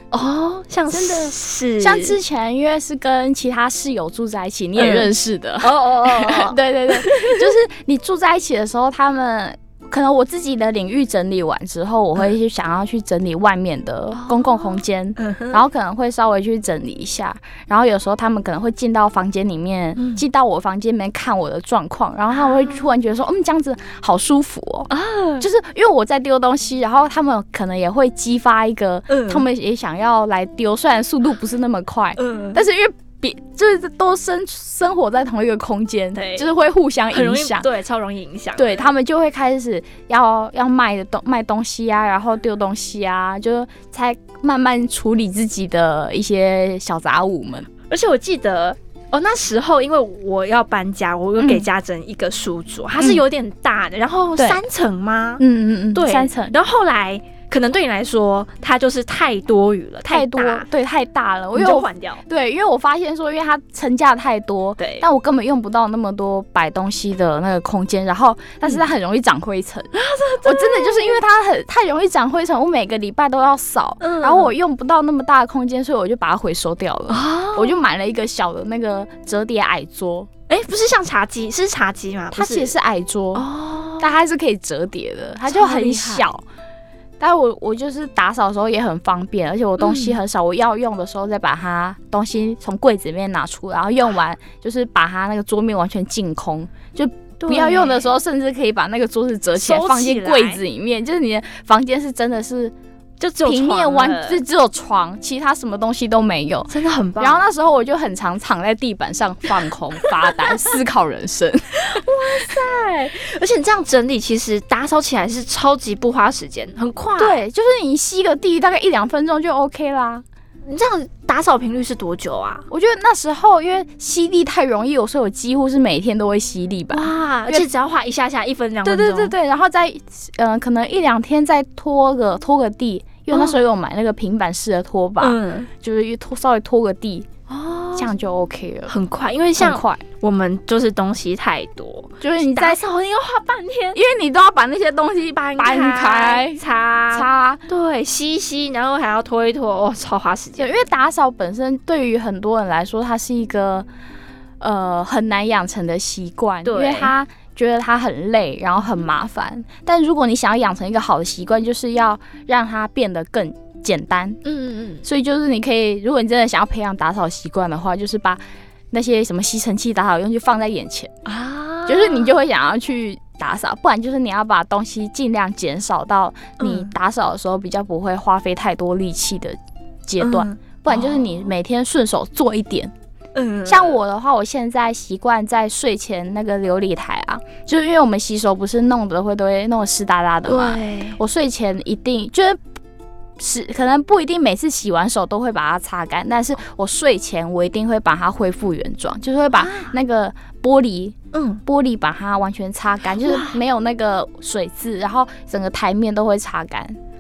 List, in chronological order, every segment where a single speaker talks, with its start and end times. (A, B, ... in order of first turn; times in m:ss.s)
0:00.1-0:02.2 A
0:00.9-0:24.9 B
0:04.8-0:07.4 A
0:14.1-0:15.6 A
0:20.0-0:20.2 A
0:22.4-0:22.8 A
0:24.9-0:25.5 A
0:25.4-0:37.6 B
0:29.1-0:29.4 A
0:32.2-0:32.6 A
0:36.1-0:36.5 A
0:37.1-0:38.9 A
0:38.6-0:47.7 B
0:47.9-0:55.4 A
0:51.4-0:51.7 B
0:54.4-0:54.6 B
0:55.4-0:56.6 B
0:56.0-1:00.6 A
1:00.1-1:09.9 B
1:01.6-1:02.2 A
1:04.8-1:05.0 A
1:09.9-1:11.2 A
1:10.4-1:20.3 B
1:14.0-1:14.5 A
1:17.1-1:17.8 A
1:20.5-1:22.7 A
1:22.3-1:23.5 B
1:23.3-1:24.1 A
1:24.0-1:26.4 B
1:25.5-1:26.3 A
1:27.2-1:42.7 B
1:29.8-1:30.2 A
1:37.4-1:38.1 A
1:39.6-1:40.6 A
1:43.2-1:44.4 A
1:43.4-1:52.5 B
1:46.7-1:47.5 A
1:50.0-1:50.6 A
1:51.8-1:57.4 A
1:57.2-2:00.2 B
2:00.6-2:02.6 A
2:02.7-2:07.7 B
2:06.9-2:09.4 A
2:08.8-2:17.3 B
2:15.2-2:15.7 A
2:17.5-2:18.1 A
2:18.0-2:18.9 B
2:18.9-2:24.0 A
2:19.6-2:20.0 B
2:22.2-2:22.8 B
2:24.0-2:26.6 B
2:25.4-2:30.7 A
2:27.1-2:27.6 B
2:30.6-2:33.9 B
2:34.6-2:44.4 B
2:36.6-2:37.1 A
2:44.4-2:45.0 A
2:45.0-2:51.1 B
2:51.2-2:52.4 A
2:51.9-3:02.9 B
2:56.6-2:56.9 A
3:00.2-3:01.2 A
3:03.4-3:04.0 A
3:03.6-3:12.6 B
3:10.4-3:11.2 A
3:13.4-3:27.0 B
3:19.6-3:19.9 A
3:21.3-3:21.6 A
3:23.2-3:23.6 A